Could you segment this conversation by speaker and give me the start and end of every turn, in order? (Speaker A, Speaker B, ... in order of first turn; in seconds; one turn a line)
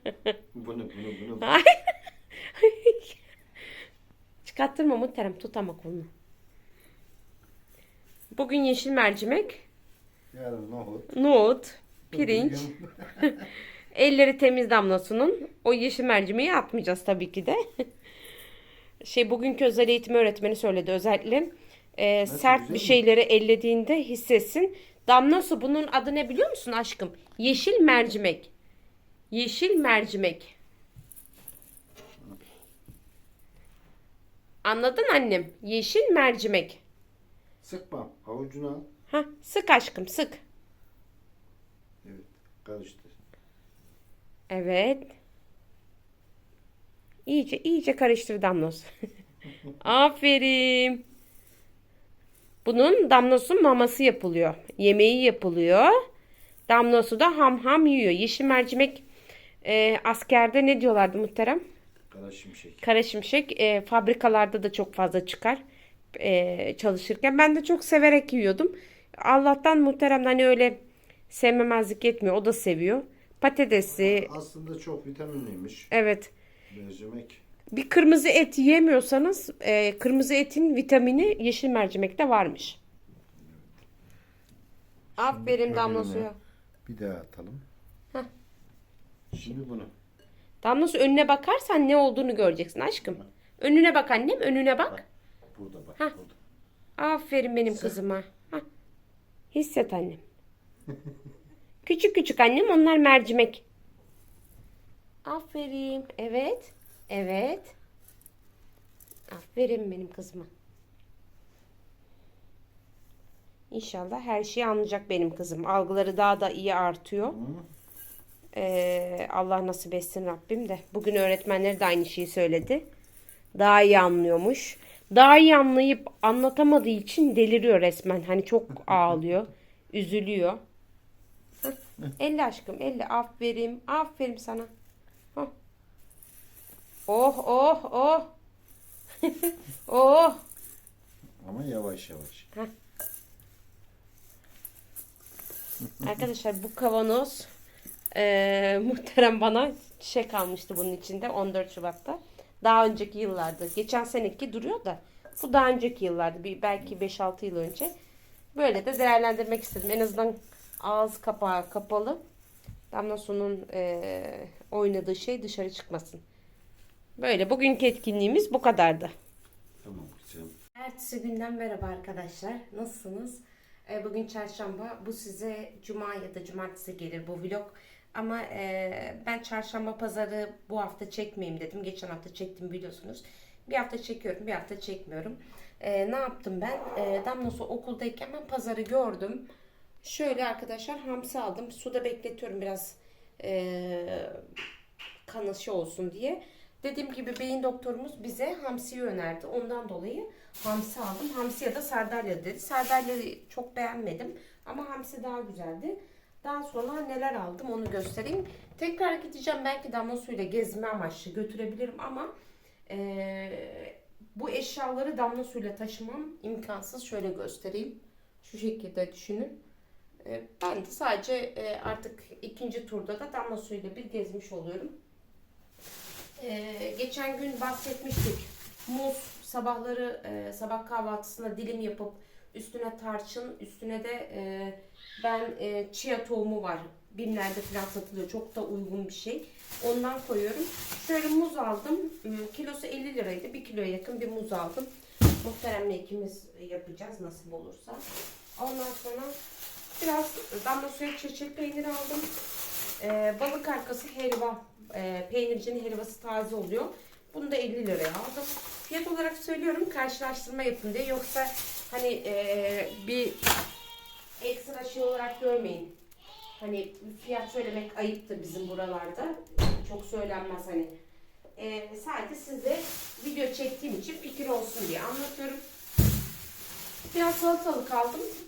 Speaker A: 0.5-1.5
Speaker B: 1.4-1.7
Speaker B: 2.5-3.1
Speaker B: 4.4-6.1
Speaker B: 8.3-9.6
Speaker A: 10.3-11.1
Speaker B: 11.1-12.7
Speaker A: 12.1-13.4
Speaker B: 13.9-17.6
Speaker B: 19.0-28.5
Speaker A: 22.2-23.0
Speaker B: 29.3-30.5
Speaker B: 34.6-36.8
Speaker A: 37.6-38.9
Speaker B: 39.1-40.4
Speaker A: 42.0-43.1
Speaker B: 44.5-45.1
Speaker B: 47.2-48.9
Speaker B: 49.8-51.0
Speaker B: 52.6-55.9
Speaker B: 56.7-59.0
Speaker B: 59.6-61.6
Speaker A: 62.1-62.8
Speaker B: 62.8-65.6
Speaker B: 66.2-70.8
Speaker B: 71.3-74.3
Speaker A: 74.0-75.9
Speaker B: 75.9-76.3
Speaker A: 76.7-77.4
Speaker B: 77.7-82.8
Speaker A: 83.4-83.7
Speaker B: 85.2-86.3
Speaker A: 85.2-86.3
Speaker A: 86.8-87.6
Speaker A: 89.3-89.9
Speaker B: 90.6-95.0
Speaker A: 95.5-96.4
Speaker B: 97.0-98.6
Speaker B: 99.5-100.2
Speaker B: 101.8-103.6
Speaker B: 105.2-107.7
Speaker B: 109.3-110.5
Speaker B: 113.7-117.3
Speaker A: 117.3-117.7
Speaker B: 118.5-122.8
Speaker B: 123.5-130.6
Speaker B: 131.6-134.7
Speaker B: 137.1-138.3
Speaker B: 139.2-140.4
Speaker A: 141.4-142.5
Speaker B: 146.0-147.5
Speaker B: 148.1-157.9
Speaker B: 158.5-162.2
Speaker B: 162.9-166.2
Speaker B: 167.2-169.1
Speaker A: 169.8-170.5
Speaker B: 170.8-189.4
Speaker B: 190.0-194.4
Speaker B: 195.2-212.3
Speaker B: 212.9-219.6
Speaker B: 220.2-224.9
Speaker B: 226.4-244.9
Speaker B: 245.4-248.0
Speaker B: 248.6-249.3
Speaker B: 250.0-252.3
Speaker B: 253.0-263.4
Speaker B: 264.4-265.9
Speaker B: 266.6-270.9
Speaker B: 271.6-275.6
Speaker B: 277.1-278.3